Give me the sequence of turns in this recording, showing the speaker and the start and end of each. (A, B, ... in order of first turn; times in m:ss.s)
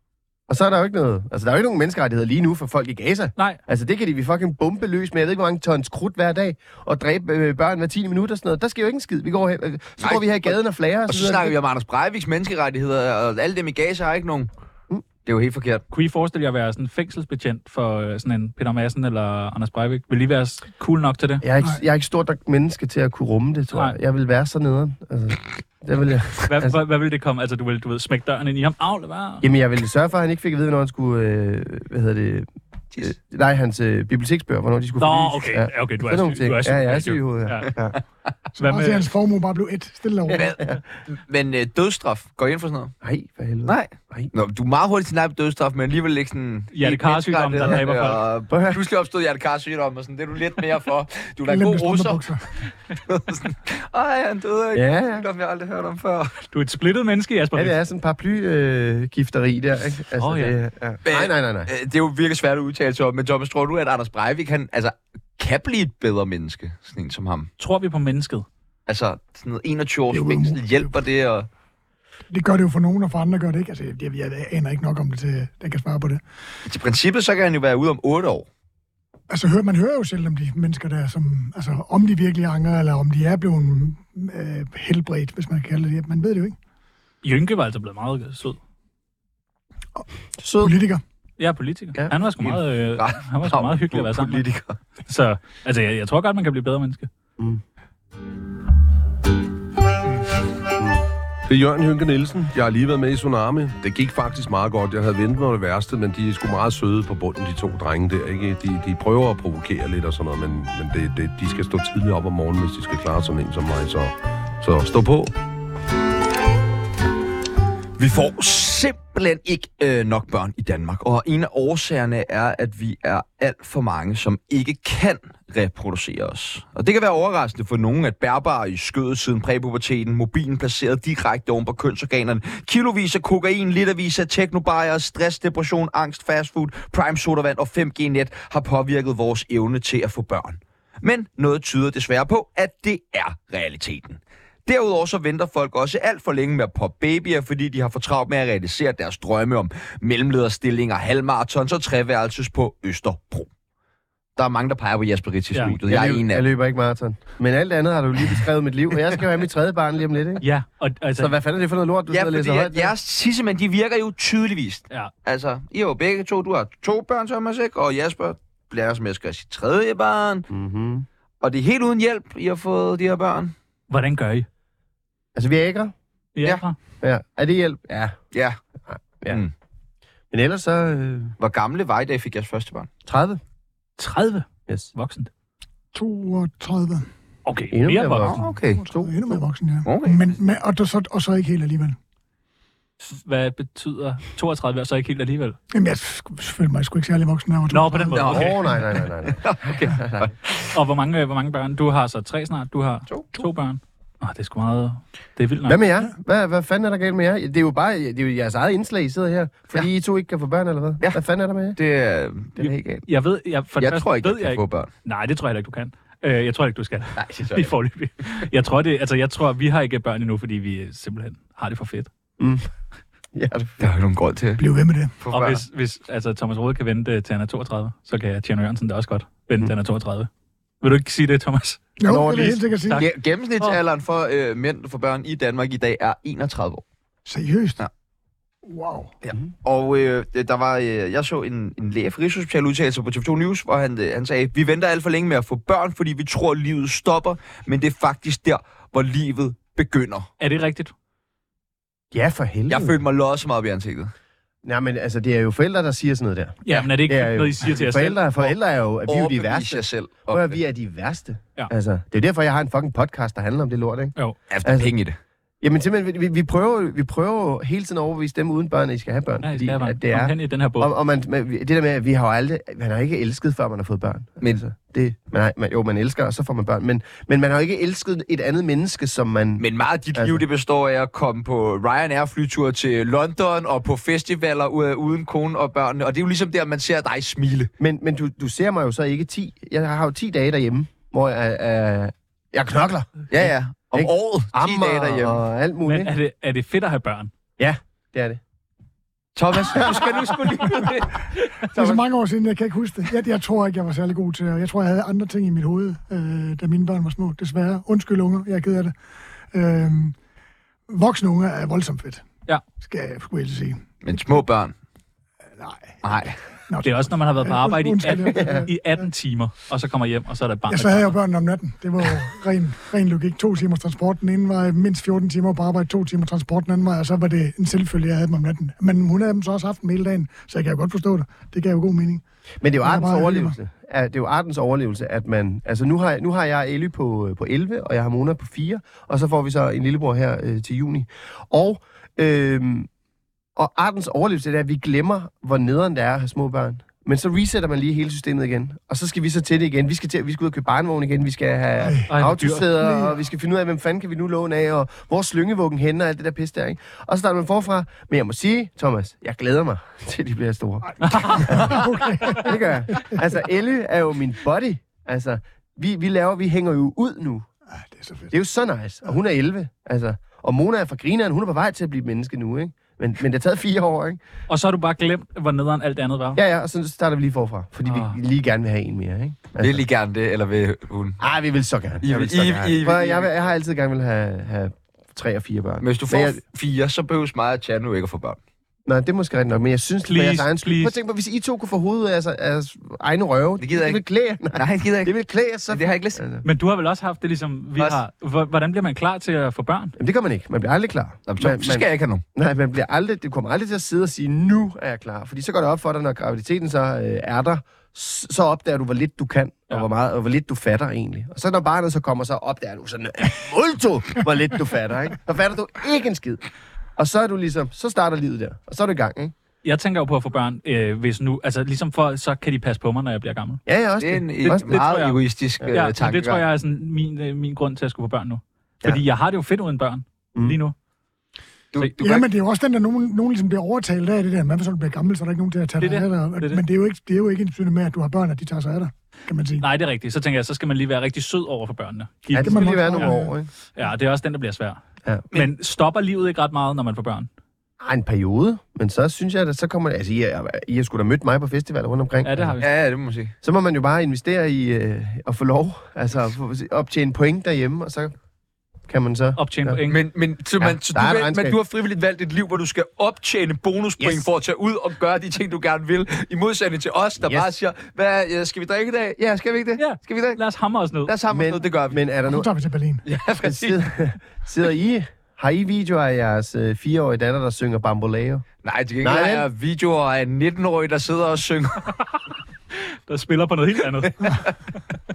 0:00.5-0:11.5 A
0:10.0-0:10.5 B
0:11.1-0:14.5 B
0:15.2-0:15.8 B
0:15.9-0:21.4 C
0:21.4-0:26.7 A
0:26.4-0:29.5 C
0:29.4-0:32.5 A
0:33.0-0:38.0 A
0:35.0-0:37.7 C
0:38.6-0:39.0 C
0:38.6-0:40.5 D
0:40.3-0:42.9 B
0:43.0-0:44.3 A
0:43.6-0:56.4 B
0:46.7-0:48.2 C
0:48.5-0:48.8 A
0:51.5-0:52.5 D
0:54.7-0:55.2 A
0:56.5-0:57.7 C
0:57.5-1:01.7 A
1:00.2-1:00.6 C
1:01.0-1:07.5 B
1:07.6-1:08.4 C
1:08.9-1:11.5 B
1:10.1-1:10.9 D
1:12.3-1:16.2 D
1:16.6-1:18.5 B
1:19.3-1:26.6 D
1:27.2-1:28.6 C
1:30.4-1:30.8 A
1:30.6-1:31.0 D
1:31.4-1:34.4 C
1:32.4-1:34.8 B
1:35.1-1:37.1 C
1:40.8-1:41.0 A
1:41.5-1:55.3 E
1:58.0-2:33.5 B
2:34.4-2:36.4 B
2:35.8-2:40.4 A
2:40.4-2:41.3 C
2:41.2-2:42.9 A
2:42.1-2:50.5 B
2:50.5-2:51.1 A
2:51.4-2:53.5 B
2:53.9-2:54.5 C
2:55.3-2:55.9 A
2:56.3-2:56.8 C
2:57.0-2:58.2 A
2:58.3-2:58.6 B
2:58.9-2:59.4 A
3:00.3-3:01.3 A
3:01.4-3:02.9 B
3:03.0-3:03.4 A
3:04.0-3:05.3 C
3:05.9-3:07.1 D
3:07.4-3:08.5 C
3:07.7-3:09.4 A
3:08.2-3:08.8 B
3:08.8-3:12.0 D
3:09.8-3:10.4 B
3:13.0-3:15.6 C
3:15.7-3:18.5 D
3:17.7-3:18.6 C
3:18.1-3:20.7 B
3:18.3-3:20.3 A
3:20.7-3:25.8 C
3:23.1-3:23.4 B
3:25.6-3:31.8 A
3:31.8-3:33.0 B
3:32.6-3:33.0 A
3:33.1-3:42.1 C
3:33.8-3:34.9 B
3:37.2-3:37.7 B
3:42.4-3:42.7 A
3:43.3-3:43.9 A
3:43.8-3:44.6 B
3:44.6-3:45.1 D
3:45.2-3:45.6 B
3:45.3-3:50.3 C
3:50.8-3:51.8 C
3:52.0-3:53.0 D
3:52.0-3:52.6 A
3:52.8-3:53.8 C
3:52.9-3:56.8 B
3:57.3-3:57.8 D
3:58.6-3:59.1 D
3:59.2-4:10.3 B
4:10.4-4:10.9 C
4:12.1-4:13.0 A
4:12.7-4:14.1 B
4:14.6-4:24.9 A
4:16.6-4:18.5 C
4:19.1-4:20.6 B
4:24.5-4:25.2 B
4:25.6-4:40.4 A
4:29.4-4:30.9 C
4:39.6-4:47.7 B
4:47.8-4:56.1 A
4:53.3-4:55.4 B
4:55.8-4:57.3 C
4:57.6-4:58.4 A
4:59.4-5:01.7 B
4:59.7-5:00.1 A
5:01.7-5:02.0 A
5:01.7-5:08.9 D
5:09.5-5:10.2 D
5:10.9-5:12.2 D
5:12.8-5:13.8 D
5:14.0-5:14.7 B
5:15.6-5:16.0 D
5:16.0-5:16.4 B
5:16.7-5:19.0 D
5:16.8-5:21.1 C
5:18.3-5:18.7 A
5:20.7-5:32.2 D
5:32.6-5:42.9 A
5:32.8-5:33.6 D
5:43.6-6:07.5 A
5:51.8-5:52.1 D
5:52.1-5:52.7 C
5:52.7-5:53.2 D
6:01.0-6:03.1 D
6:01.1-6:01.6 C
6:07.7-6:08.3 D
6:08.3-6:14.2 A
6:14.5-6:16.4 C
6:16.3-6:19.8 A
6:17.8-6:18.2 C
6:19.6-6:21.2 B
6:21.2-6:26.4 A
6:22.0-6:23.3 B
6:25.8-6:28.4 B
6:28.9-6:36.4 A
6:30.0-6:31.0 C
6:33.6-6:34.0 B
6:34.5-6:35.1 B
6:35.7-6:36.2 B
6:36.4-6:40.0 C
6:40.0-6:56.4 A
6:41.3-6:42.2 B
6:57.0-6:59.3 A
6:59.6-7:03.6 C
7:03.6-7:04.8 A
7:04.0-7:06.4 B
7:04.4-7:10.7 C
7:11.7-7:12.3 B
7:12.0-7:19.6 D
7:15.8-7:16.6 C
7:19.6-7:23.1 C
7:22.3-7:23.5 A
7:22.4-7:23.3 D
7:23.7-7:24.8 C
7:25.3-7:27.3 C
7:27.8-7:32.6 A
7:32.2-7:32.7 C
7:32.6-7:33.3 B
7:33.4-7:38.1 A
7:38.9-7:39.8 A
7:39.4-7:40.0 C
7:39.9-7:50.4 B
7:40.6-7:41.6 A
7:44.0-7:44.3 A
7:47.2-7:47.5 A
7:49.8-7:51.1 C
7:51.0-7:52.0 B
7:51.3-7:52.5 A
7:52.3-7:53.0 D
7:53.0-7:53.8 B
7:53.4-7:58.4 A
7:58.6-8:01.9 B
7:59.0-7:59.5 A
8:03.1-8:04.5 C